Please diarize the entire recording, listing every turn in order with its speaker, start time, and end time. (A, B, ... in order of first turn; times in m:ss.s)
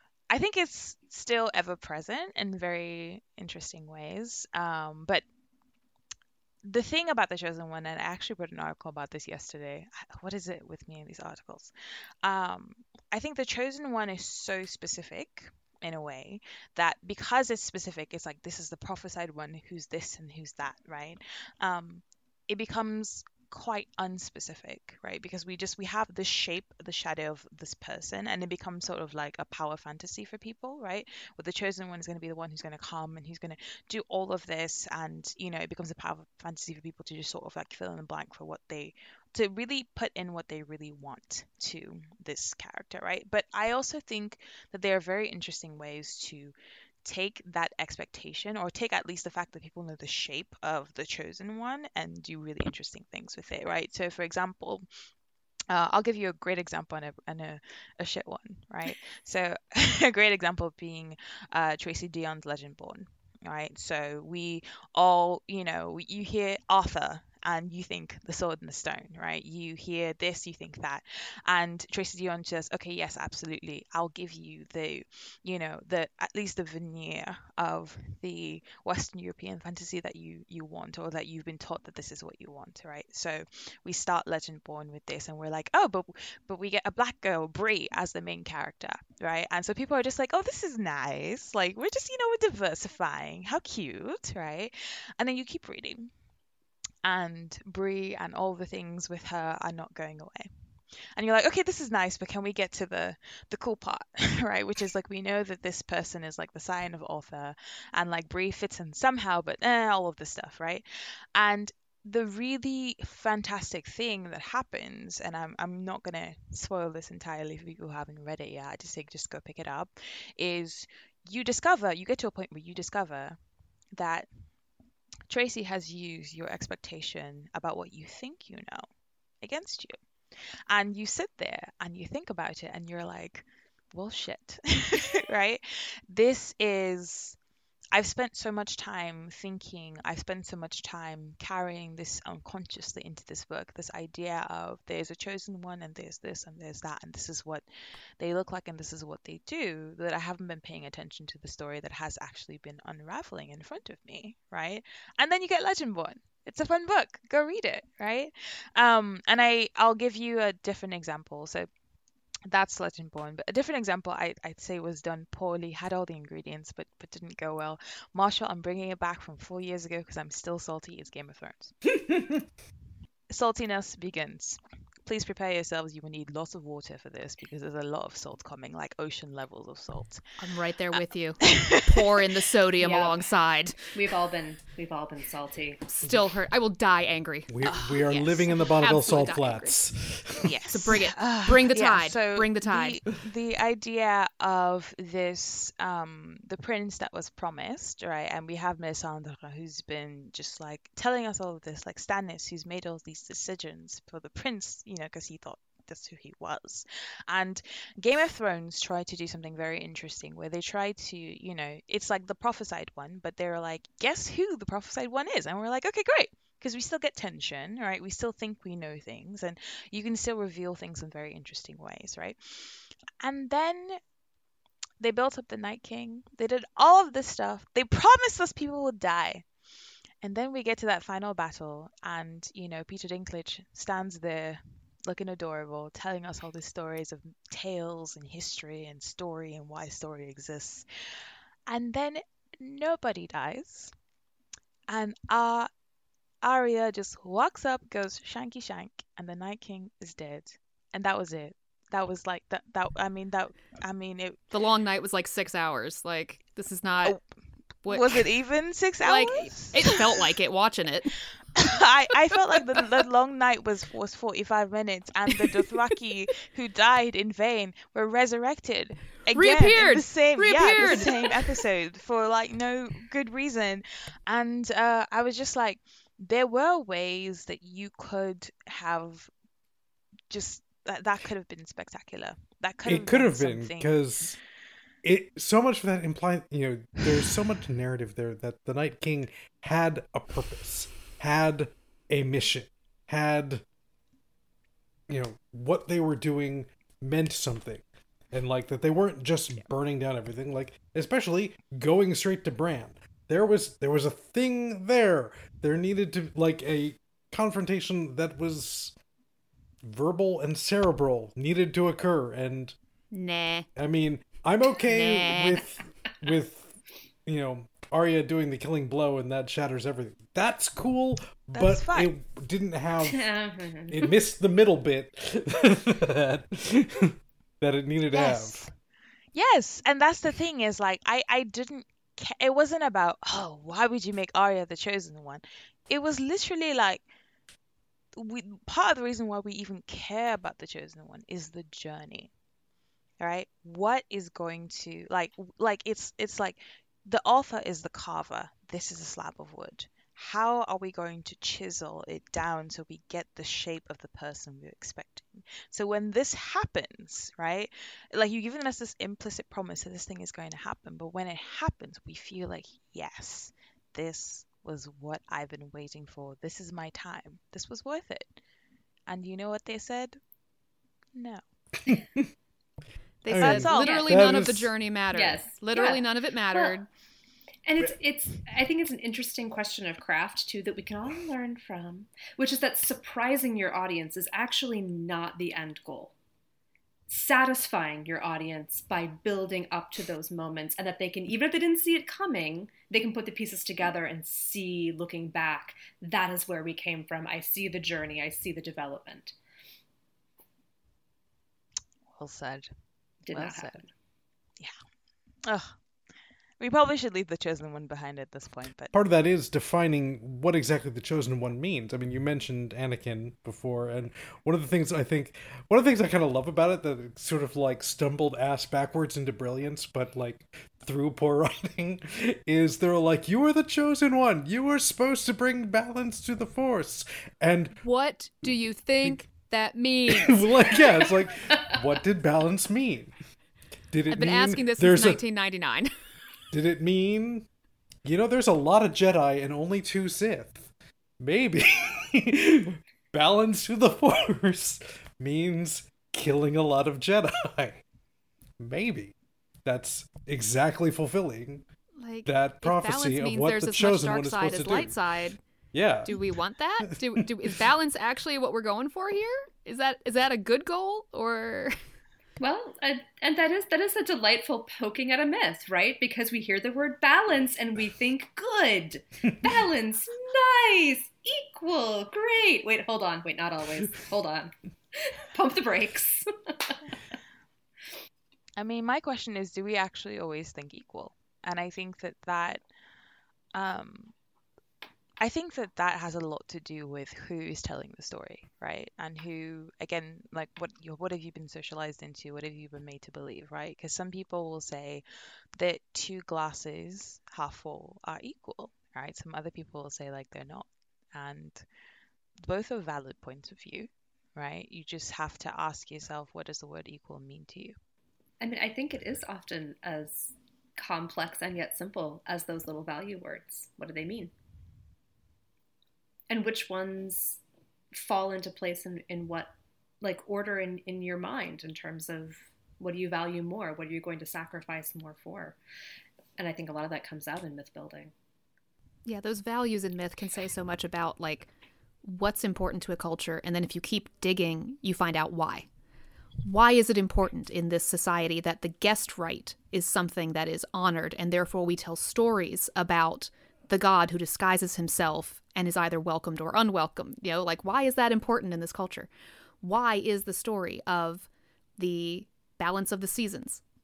0:00.3-0:05.2 A
0:06.6-0:54.8 A
0:55.7-1:36.1 A
1:37.0-1:40.5 A
1:41.2-2:03.4 A
2:03.9-2:04.3 A
2:05.3-2:08.9 A
2:09.4-2:10.0 A
2:10.7-2:17.4 A
2:17.9-2:27.6 A
2:28.2-2:41.7 A
2:42.5-2:51.8 A
2:53.3-3:00.2 A
3:00.4-3:03.9 B
3:01.5-3:02.4 A
3:02.8-3:03.2 C
3:03.9-3:05.8 C
3:05.9-3:07.5 B
3:07.5-3:10.5 D
3:07.6-3:08.5 A
3:08.5-3:09.8 B
3:10.4-3:44.0 A
3:10.7-3:13.0 B
3:45.0-3:49.4 A
3:50.2-4:00.9 A
4:01.7-4:03.9 A
4:04.9-4:05.7 A
4:06.4-4:14.4 A
4:14.5-4:17.2 B
4:17.8-4:18.2 B
4:17.9-4:20.2 A
4:19.0-4:21.1 B
4:21.6-4:39.3 A
4:29.3-4:31.6 B
4:40.3-4:43.9 A
4:42.8-4:44.4 D
4:45.0-4:53.6 D
4:55.1-5:08.9 D
5:09.8-5:12.8 D
5:13.1-5:13.7 B
5:13.8-5:23.3 D
5:14.8-5:15.6 B
5:21.6-5:22.1 A
5:23.1-5:24.1 C
5:23.9-5:28.6 D
5:28.1-5:28.7 A
5:29.3-5:37.0 A
5:38.1-5:42.3 A
5:43.2-6:08.4 A
6:09.1-6:10.2 A
6:11.1-6:11.4 A
6:11.9-6:12.2 D
6:13.2-6:16.9 B
6:13.3-6:14.7 D
6:13.3-6:14.2 A
6:13.7-6:14.4 C
6:15.1-6:16.7 C
6:17.6-6:26.1 C
6:27.1-6:39.4 C
6:42.1-6:42.7 A
6:43.2-6:43.9 C
6:43.3-6:43.8 A
6:45.4-6:45.7 A
6:46.6-6:48.9 A
6:48.9-7:07.8 D
7:07.8-7:10.9 B
7:10.1-7:13.1 D
7:13.9-7:15.2 D
7:14.1-7:15.9 B
7:16.5-7:17.5 D
7:18.0-7:27.8 D
7:28.6-7:31.6 D
7:32.0-7:35.4 B
7:32.2-7:34.9 D
7:35.7-7:36.1 D
7:36.0-7:41.8 B
7:36.9-7:37.6 D
7:42.4-7:56.9 C
7:58.6-8:02.6 A
8:03.5-8:04.1 A
8:05.2-8:15.0 A
8:15.6-8:21.6 A
8:22.4-8:27.8 A
8:28.4-8:34.3 C
8:36.3-8:37.4 C
8:37.9-8:45.6 C
8:46.4-8:48.1 C
8:49.0-8:51.5 B
8:52.0-8:55.7 B
8:56.4-9:09.1 B
9:09.6-9:13.6 B